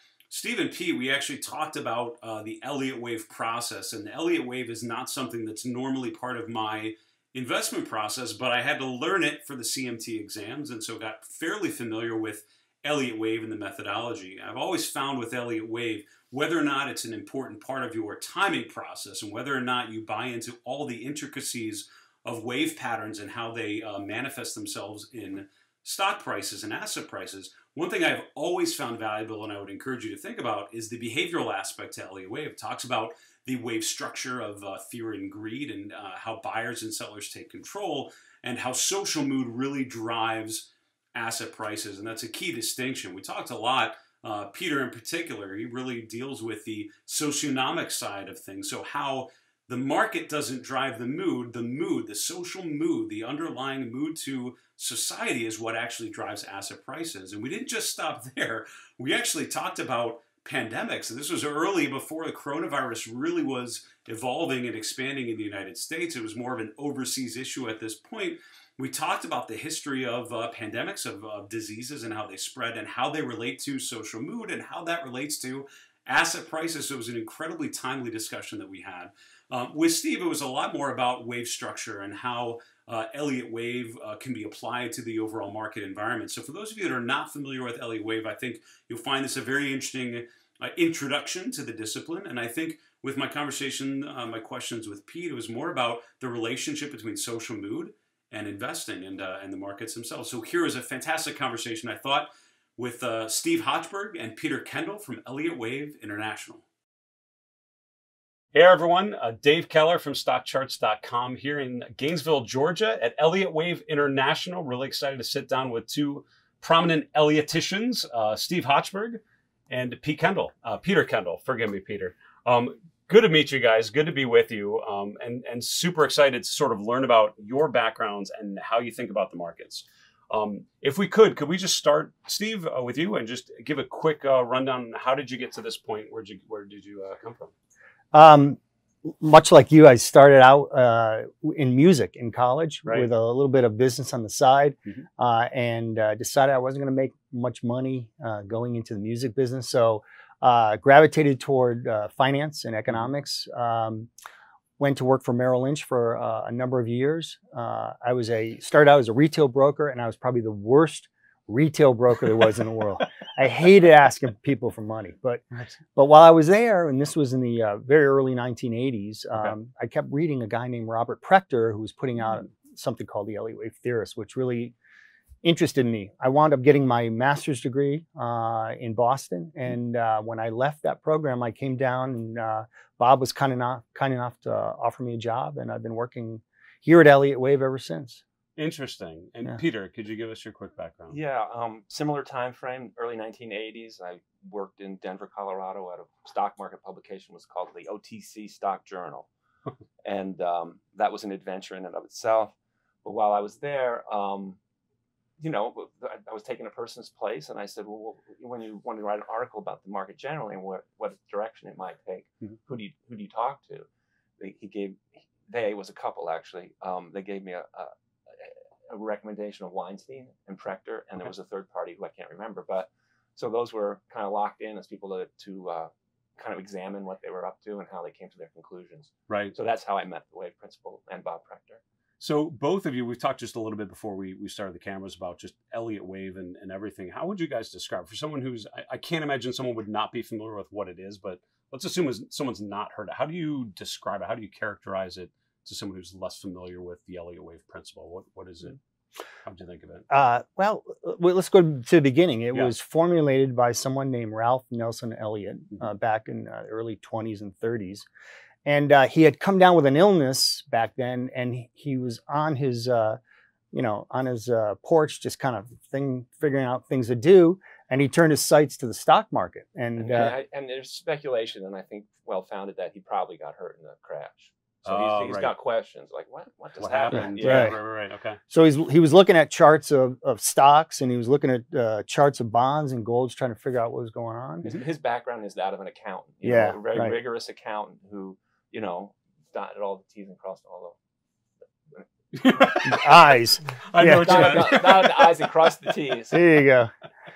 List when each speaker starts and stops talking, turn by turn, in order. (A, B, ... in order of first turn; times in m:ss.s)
0:00.3-1:46.6 A
1:48.5-2:17.5 A
2:18.1-2:34.1 B
2:34.8-2:54.7 B
2:55.4-3:08.2 B
3:08.6-3:11.2 A
3:11.1-3:19.3 C
3:20.0-3:22.5 C
3:23.0-3:24.6 C
3:25.4-3:33.9 C
3:34.4-3:51.8 C
3:49.3-3:49.6 A
3:52.2-4:08.8 A
4:09.4-4:10.1 A
4:10.1-4:18.1 B
4:18.6-4:23.2 B
4:23.7-4:30.4 B
4:30.0-4:37.8 C
4:34.8-4:35.5 A
4:36.8-4:38.4 A
4:37.1-4:37.8 B
4:38.5-4:44.7 B
4:44.6-4:51.0 C
4:46.4-4:47.2 B
4:52.3-4:53.2 A
4:52.8-4:54.8 B
4:53.8-4:55.5 A
4:54.2-4:56.4 C
4:56.3-4:56.9 B